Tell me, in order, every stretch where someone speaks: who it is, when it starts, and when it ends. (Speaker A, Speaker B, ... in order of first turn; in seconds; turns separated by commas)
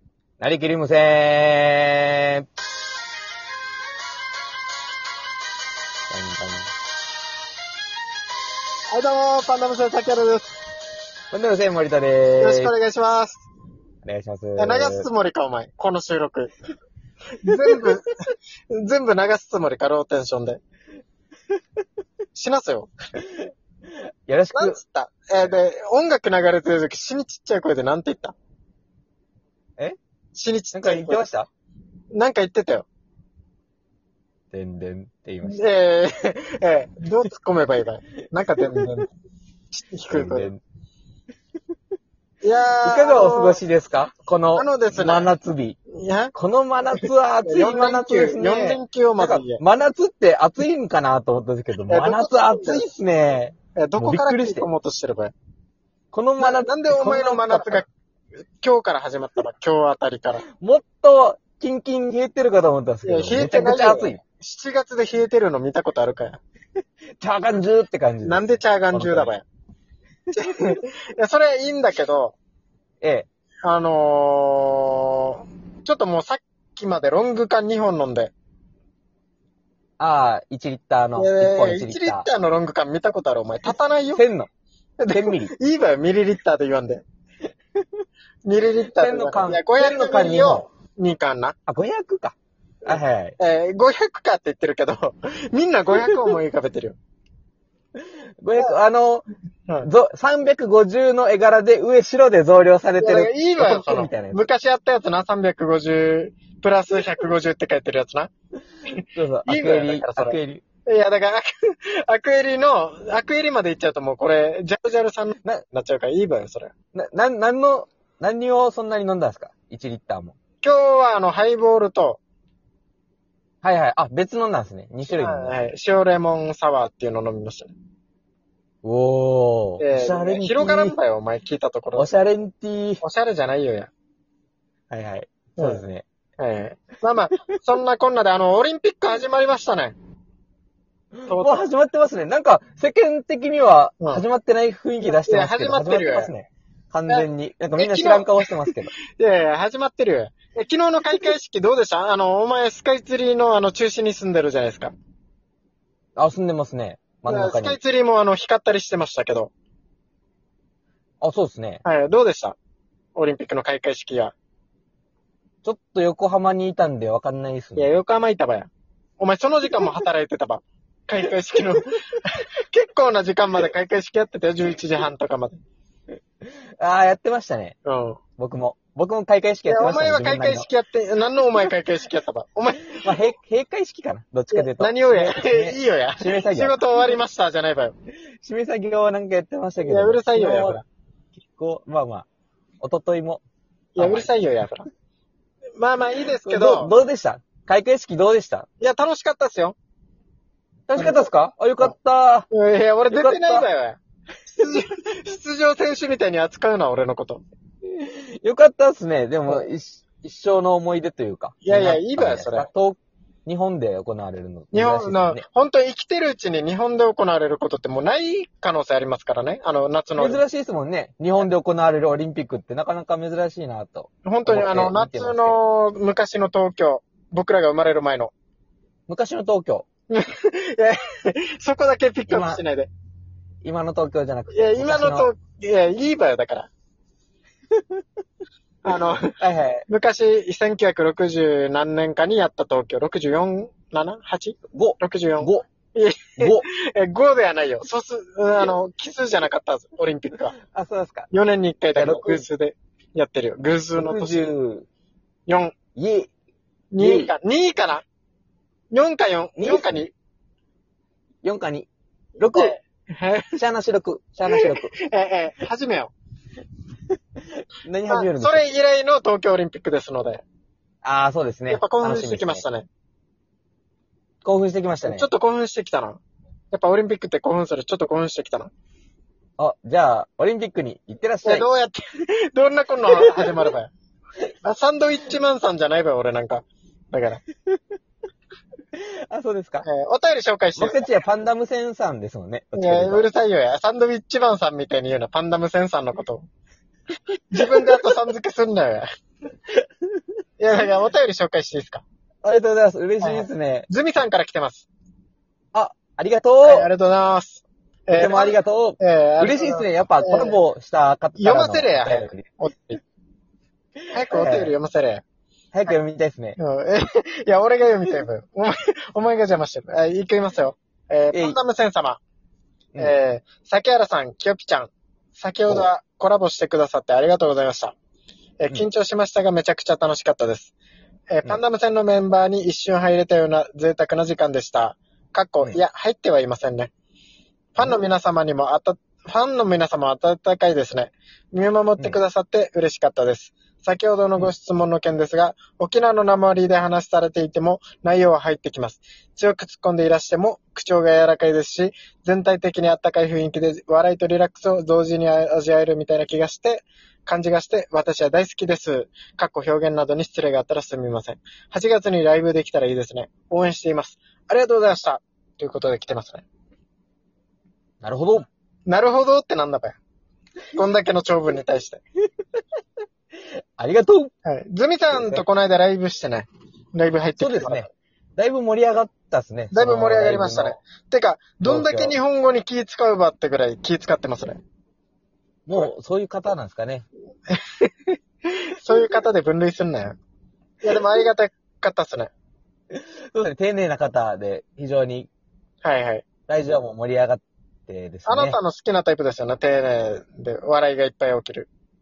Speaker A: 0.4-2.4, Speaker A: 6.1-6.7, Speaker B: 8.9-10.6, Speaker A: 11.3-12.7, Speaker B: 12.4-13.4, Speaker A: 14.0-15.1, Speaker B: 14.6-16.5, Speaker B: 17.4-18.1, Speaker B: 18.7-20.6, Speaker B: 22.3-22.9, Speaker A: 24.3-24.8, Speaker B: 24.5-28.3, Speaker B: 30.3-31.2, Speaker A: 30.7-31.5, Speaker B: 32.1-32.9, Speaker A: 34.5-35.6, Speaker B: 35.4-39.0, Speaker A: 38.6-39.1, Speaker B: 39.7-40.5, Speaker A: 40.1-40.6, Speaker B: 42.4-43.6, Speaker A: 42.8-45.8, Speaker B: 44.5-45.3, Speaker B: 45.9-46.3, Speaker A: 46.3-54.6, Speaker B: 46.9-49.6, Speaker B: 51.9-52.8, Speaker B: 53.8-55.3, Speaker A: 56.1-57.8, Speaker B: 56.4-57.9, Speaker B: 58.6-60.4, Speaker A: 60.6-64.2, Speaker B: 63.0-66.4, Speaker A: 67.2-69.3, Speaker B: 68.2-69.4, Speaker B: 70.3-72.3, Speaker A: 73.0-73.3, Speaker B: 73.6-78.3, Speaker A: 80.0-82.3, Speaker B: 81.2-84.2, Speaker A: 84.1-84.5, Speaker B: 85.0-87.0, Speaker A: 85.1-85.5, Speaker B: 88.4-91.5, Speaker A: 88.9-90.7, Speaker A: 91.7-93.3, Speaker B: 92.9-97.0, Speaker A: 98.0-99.2, Speaker A: 99.8-104.5, Speaker B: 103.0-108.3, Speaker A: 109.1-110.6, Speaker B: 109.5-116.7, Speaker A: 116.9-120.4, Speaker B: 120.6-122.2, Speaker A: 123.6-125.5, Speaker B: 125.1-127.7, Speaker A: 128.8-130.9, Speaker B: 129.8-132.1, Speaker A: 131.9-133.0, Speaker B: 133.0-133.9, Speaker A: 134.9-136.0, Speaker B: 135.6-135.8, Speaker B: 136.4-139.9, Speaker A: 141.2-148.9, Speaker B: 141.3-141.6, Speaker B: 145.0-146.3, Speaker B: 147.1-154.9, Speaker A: 156.2-157.8, Speaker B: 157.3-159.5, Speaker A: 161.2-161.8, Speaker B: 161.8-162.6, Speaker B: 163.2-164.3, Speaker A: 165.6-167.9, Speaker B: 167.8-168.7, Speaker B: 169.2-175.6, Speaker A: 176.4-177.8, Speaker B: 177.8-178.2, Speaker A: 178.4-180.7, Speaker B: 179.7-183.0, Speaker A: 182.9-186.8, Speaker B: 184.5-187.9, Speaker A: 188.4-190.8, Speaker B: 189.8-190.8, Speaker A: 191.6-192.3, Speaker A: 192.8-193.4, Speaker B: 193.9-194.9, Speaker A: 194.0-194.3, Speaker B: 195.8-196.9, Speaker A: 196.4-198.7, Speaker B: 198.8-199.8, Speaker A: 200.9-202.5, Speaker B: 200.9-201.3, Speaker B: 202.5-207.4, Speaker A: 203.1-203.6, Speaker A: 207.9-215.4, Speaker B: 211.6-212.7, Speaker B: 214.7-220.4, Speaker A: 220.2-225.6, Speaker B: 224.2-228.3, Speaker A: 229.1-229.8, Speaker B: 230.1-232.9, Speaker A: 232.3-232.6, Speaker A: 233.6-235.3, Speaker B: 234.5-236.7, Speaker B: 238.8-239.3, Speaker A: 239.4-239.8, Speaker B: 239.9-250.6, Speaker A: 244.7-245.6, Speaker A: 246.4-246.6, Speaker A: 250.7-251.3, Speaker B: 251.3-254.5, Speaker A: 251.9-252.4, Speaker A: 254.0-254.9, Speaker B: 255.5-255.7, Speaker A: 255.9-256.3, Speaker B: 256.9-258.0, Speaker A: 257.0-257.3, Speaker B: 258.9-260.1, Speaker A: 259.6-259.8, Speaker A: 261.4-262.8, Speaker B: 262.5-263.6, Speaker A: 263.5-264.9, Speaker B: 264.5-266.1, Speaker A: 267.8-268.6, Speaker B: 268.1-270.4, Speaker A: 271.0-272.6, Speaker B: 271.7-272.9, Speaker A: 274.4-275.3, Speaker B: 275.0-276.2, Speaker B: 276.7-278.7, Speaker A: 279.6-281.6, Speaker B: 281.4-283.9, Speaker A: 283.2-283.6, Speaker B: 284.6-287.4, Speaker A: 288.9-289.9, Speaker B: 289.8-291.1, Speaker A: 290.8-293.3, Speaker B: 292.7-296.4, Speaker B: 297.5-299.1, Speaker A: 297.6-298.1, Speaker B: 300.6-302.0, Speaker A: 302.4-303.9, Speaker B: 303.2-304.9, Speaker A: 305.7-306.9, Speaker B: 306.6-310.6, Speaker A: 308.1-312.5, Speaker B: 311.4-313.0, Speaker B: 314.1-315.2, Speaker A: 314.3-314.7, Speaker A: 315.7-316.6, Speaker B: 316.6-322.2, Speaker A: 321.3-321.6, Speaker B: 323.0-327.9, Speaker B: 328.6-330.7, Speaker B: 331.3-336.9, Speaker B: 337.8-366.4, Speaker A: 368.0-368.5, Speaker B: 368.9-370.0, Speaker B: 370.7-372.0, Speaker A: 373.8-374.3, Speaker B: 374.4-377.9, Speaker A: 375.1-375.4, Speaker A: 377.4-380.8, Speaker B: 379.7-384.6, Speaker A: 381.6-382.2, Speaker A: 385.6-387.1, Speaker B: 387.5-390.1, Speaker B: 390.8-392.3, Speaker A: 392.9-395.3, Speaker B: 395.8-396.2, Speaker A: 396.5-398.6, Speaker B: 398.3-401.7